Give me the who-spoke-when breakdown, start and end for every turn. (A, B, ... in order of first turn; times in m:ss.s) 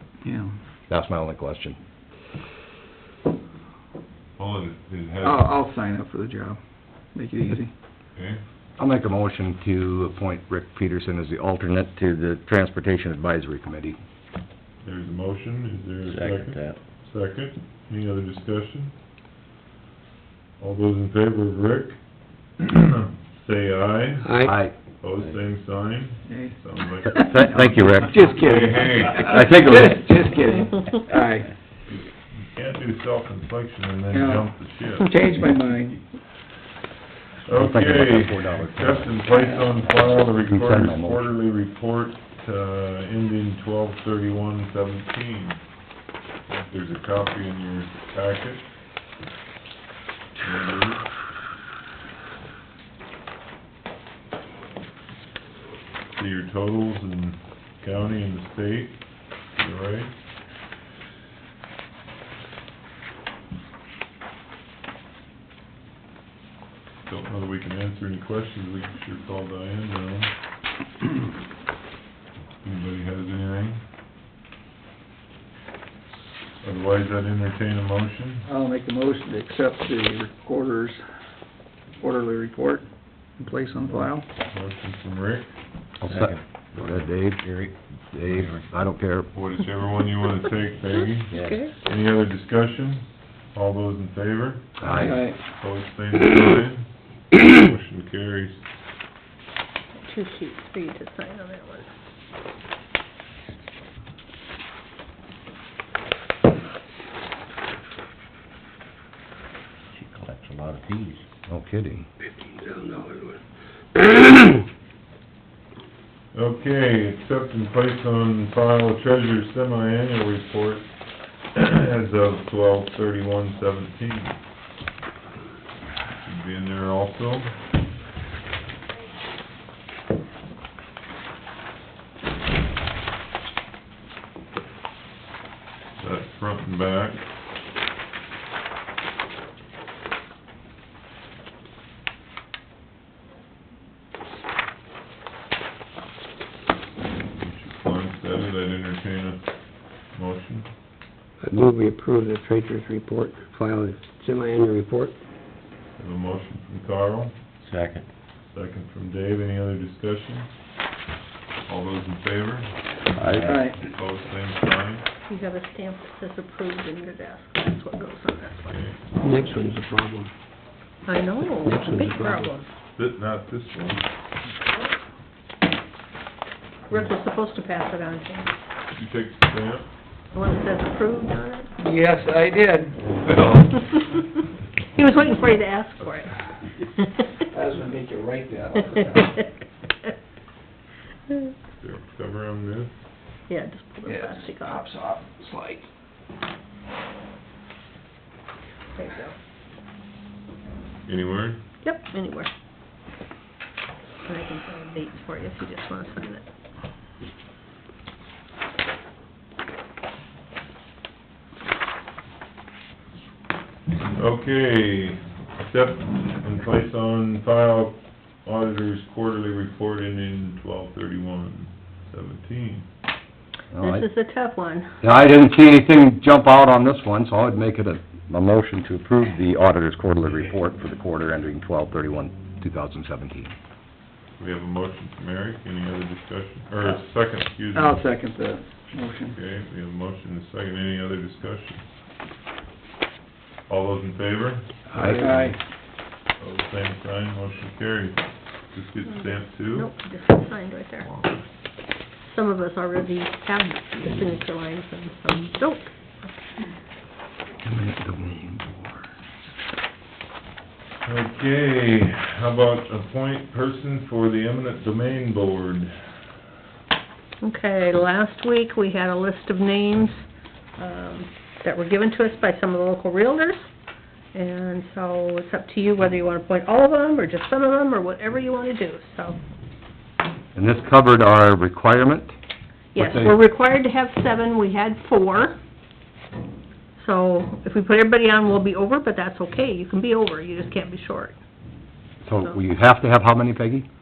0:00.2-0:00.5 A
0:00.9-0:01.8 B
0:04.4-0:05.4 C
0:05.2-0:06.6 A
0:07.1-0:07.7 A
0:08.1-0:08.4 C
0:08.8-0:14.0 B
0:14.8-0:18.9 C
0:16.1-0:16.8 D
0:20.6-0:22.0 C
0:22.6-0:24.3 C
0:24.2-0:24.6 E
0:24.4-0:24.8 B
0:25.0-0:29.3 C
0:26.3-0:31.5 A
0:27.1-0:28.3 B
0:29.2-0:30.1 B
0:31.9-0:35.2 C
0:34.1-0:36.0 A
0:37.4-0:45.6 C
0:37.5-0:39.2 B
0:40.4-0:41.2 B
0:46.5-0:48.7 C
0:50.4-0:51.0 C
0:56.1-1:00.1 C
1:07.1-1:10.3 C
1:12.6-1:13.8 C
1:16.6-1:18.4 C
1:18.4-1:21.1 A
1:22.0-1:24.3 A
1:23.9-1:25.5 C
1:26.0-1:27.4 B
1:26.0-1:27.7 D
1:28.1-1:29.3 B
1:28.3-1:28.7 D
1:29.3-1:38.6 C
1:31.3-1:31.7 F
1:31.3-1:31.6 D
1:34.8-1:35.2 B
1:34.9-1:35.4 A
1:40.0-1:41.9 F
1:49.9-1:51.2 D
1:51.5-1:52.1 B
1:52.6-1:53.4 E
1:56.3-2:00.9 C
2:01.5-2:04.4 C
2:06.2-2:07.5 C
2:16.0-2:17.2 C
2:27.4-2:30.7 C
2:31.4-2:35.2 E
2:36.0-2:37.4 C
2:37.6-2:38.1 D
2:38.5-2:40.5 C
2:41.7-2:42.7 C
2:43.1-2:43.6 D
2:43.3-2:45.1 C
2:43.4-2:43.8 A
2:45.3-2:48.8 F
2:48.7-2:49.0 C
2:49.2-2:50.3 E
2:51.1-2:52.7 F
2:51.6-2:52.5 E
2:53.0-2:54.1 C
2:56.9-2:58.5 F
2:58.9-2:59.9 C
3:00.3-3:01.7 F
3:01.8-3:03.2 A
3:03.2-3:04.1 C
3:05.0-3:06.4 F
3:07.3-3:09.4 A
3:11.8-3:12.9 C
3:13.5-3:14.8 F
3:14.1-3:15.9 A
3:18.9-3:19.4 F
3:21.1-3:21.6 C
3:21.8-3:22.5 F
3:24.2-3:26.4 F
3:34.1-3:42.9 C
3:43.7-3:44.1 B
3:43.8-3:44.9 F
3:45.0-3:53.5 B
3:54.4-3:58.0 C
3:57.7-3:59.4 A
3:59.3-4:01.8 C
4:03.7-4:04.8 C
4:04.9-4:05.5 E
4:05.0-4:05.2 B
4:05.2-4:05.6 A
4:06.4-4:09.9 C
4:09.1-4:11.1 F
4:11.0-4:11.5 C
4:12.3-4:16.5 F
4:17.6-4:19.0 B
4:21.0-4:26.1 C
4:27.4-4:30.3 F
4:30.8-4:33.7 F
4:34.3-4:39.4 F
4:40.5-4:42.4 B
4:42.9-4:45.6 F
4:43.0-4:43.4 B
4:47.0-4:51.4 F
4:52.2-4:53.9 B